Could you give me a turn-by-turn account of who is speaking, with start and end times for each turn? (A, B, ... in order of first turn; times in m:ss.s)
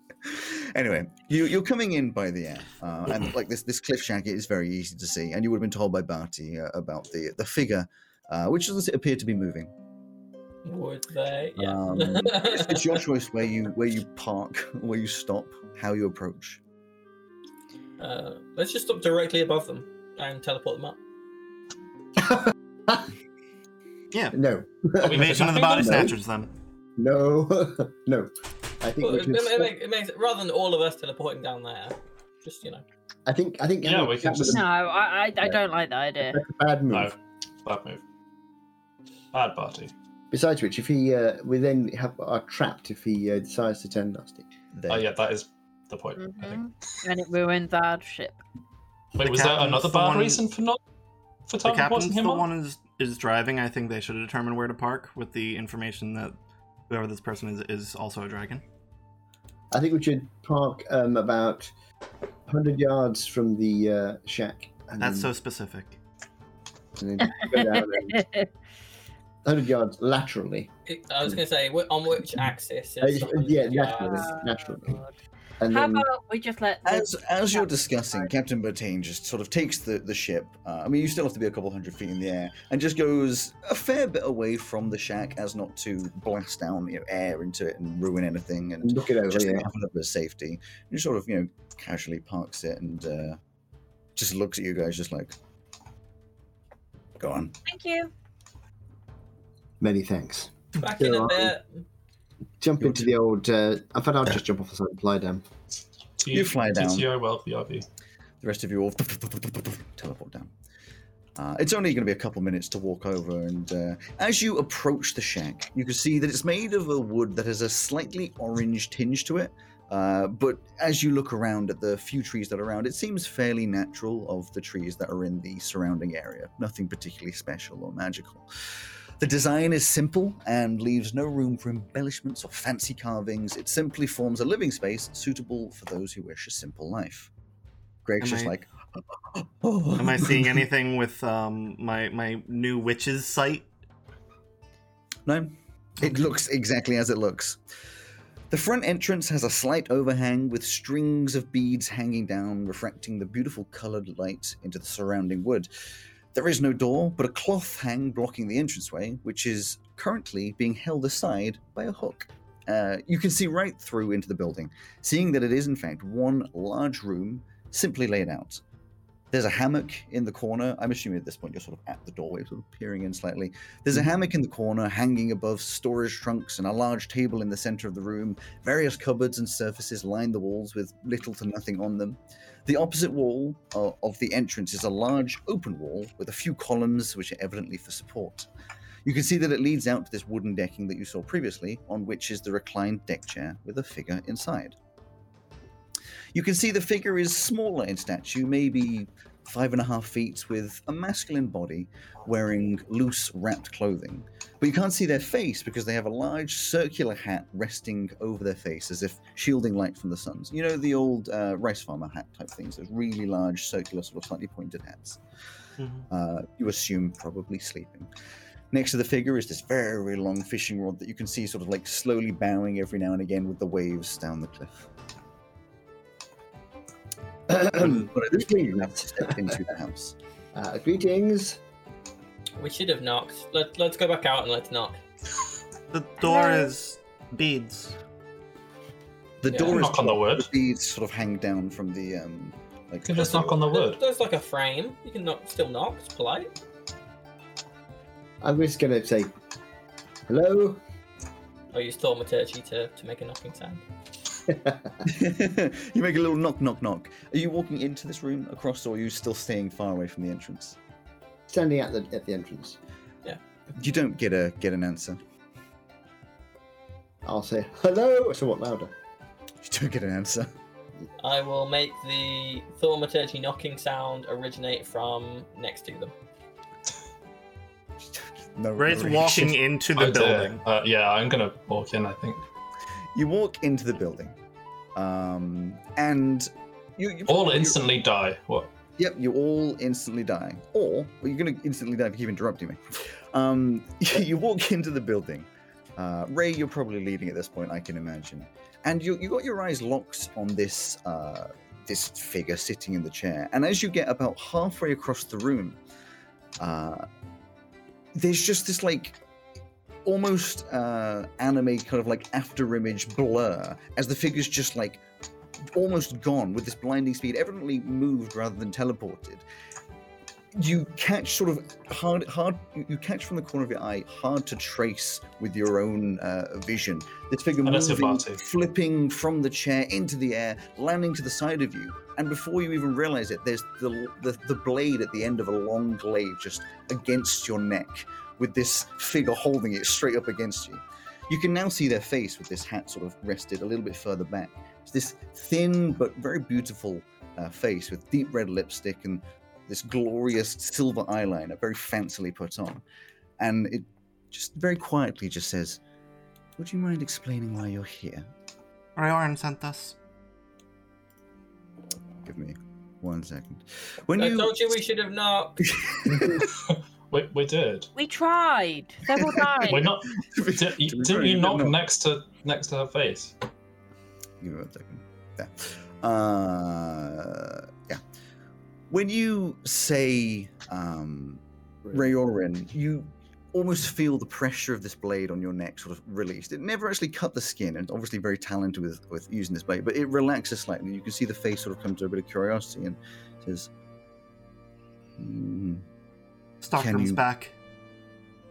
0:00.2-0:09.7 A
0:10.6-0:13.0 B
0:11.6-0:16.6 A
0:18.0-0:21.0 B
0:22.2-0:23.1 C
0:24.1-0:24.4 D
0:24.3-0:26.2 C
0:25.0-0:26.1 E
0:25.1-0:26.5 D
0:27.0-0:29.7 C
0:29.0-0:32.8 B
0:33.3-0:34.6 C
0:33.8-0:34.6 E
0:34.4-0:36.4 F
0:36.2-0:37.1 C
0:36.9-0:38.0 E
0:39.3-0:39.9 E
0:40.3-0:44.5 C
0:44.7-0:45.1 A
0:44.9-0:46.6 E
0:46.2-0:48.4 F
0:49.2-0:50.8 E
0:49.2-0:50.4 D
0:51.5-0:52.5 E
0:51.6-0:56.4 D
0:56.9-0:58.6 D
0:59.7-1:01.7 C
1:02.5-1:05.3 C
1:05.0-1:06.0 D
1:07.0-1:08.3 C
1:07.3-1:08.5 F
1:09.4-1:10.7 C
1:10.9-1:14.3 B
1:13.0-1:15.0 C
1:14.0-1:15.1 F
1:15.6-1:16.1 C
1:15.7-1:18.3 F
1:16.8-1:33.4 A
1:28.8-1:29.7 C
1:34.2-1:35.4 A
1:37.2-1:37.6 A
1:37.7-1:38.1 F
1:39.8-1:41.6 C
1:40.8-1:41.8 B
1:42.6-1:45.4 C
1:46.2-1:47.8 E
1:46.3-1:47.1 A
1:48.4-1:50.5 A
1:51.4-2:17.3 A
2:18.0-2:18.7 A
2:18.2-2:18.6 D
2:19.3-2:20.6 A
2:20.0-2:23.7 D
2:25.3-2:27.6 A
2:28.5-2:35.7 A
2:36.3-2:48.6 A
2:49.3-3:08.5 A
3:09.0-3:14.8 A
3:16.3-3:35.2 A
3:35.8-3:36.1 D
3:36.1-3:38.1 A
3:38.7-3:44.9 A
3:47.5-3:49.4 C
3:47.5-3:50.2 A
3:50.5-3:51.6 C
3:52.6-3:55.0 B
3:55.9-3:58.0 D
3:56.2-3:56.7 F
3:59.4-4:03.6 A
3:59.5-3:59.8 B
3:59.6-4:00.5 E
4:03.0-4:04.0 E
4:03.7-4:06.5 B
4:08.4-4:09.3 C
4:10.3-4:10.8 C
4:11.7-4:13.8 B
4:14.5-4:15.0 C
4:15.0-4:20.8 A
4:21.5-4:22.8 C
4:23.8-4:25.2 A
4:27.2-4:28.9 C
4:29.6-4:30.5 A
4:31.2-4:36.1 B
4:38.1-4:39.6 A
4:38.8-4:40.6 D
4:40.0-4:42.4 E
4:43.2-4:44.4 A
4:45.0-4:47.8 A
4:47.3-4:48.7 E
4:49.0-5:05.8 A
5:06.6-5:07.1 A
5:08.1-5:09.2 A
5:10.0-5:15.0 A
5:15.7-5:19.4 A
5:20.5-5:52.8 A
5:27.6-5:28.4 E
5:53.4-5:55.8 A
5:56.6-5:58.3 A
5:59.0-6:00.0 D
6:02.2-6:04.6 A
6:04.2-6:05.6 B
6:05.6-6:06.5 A
6:06.4-6:07.9 E
6:08.0-6:09.9 F
6:09.1-6:11.8 A
6:09.7-6:13.4 E
6:14.4-6:18.0 A
6:18.9-6:33.7 A
6:35.2-6:35.8 A
6:36.6-6:37.5 D
6:36.8-6:37.2 A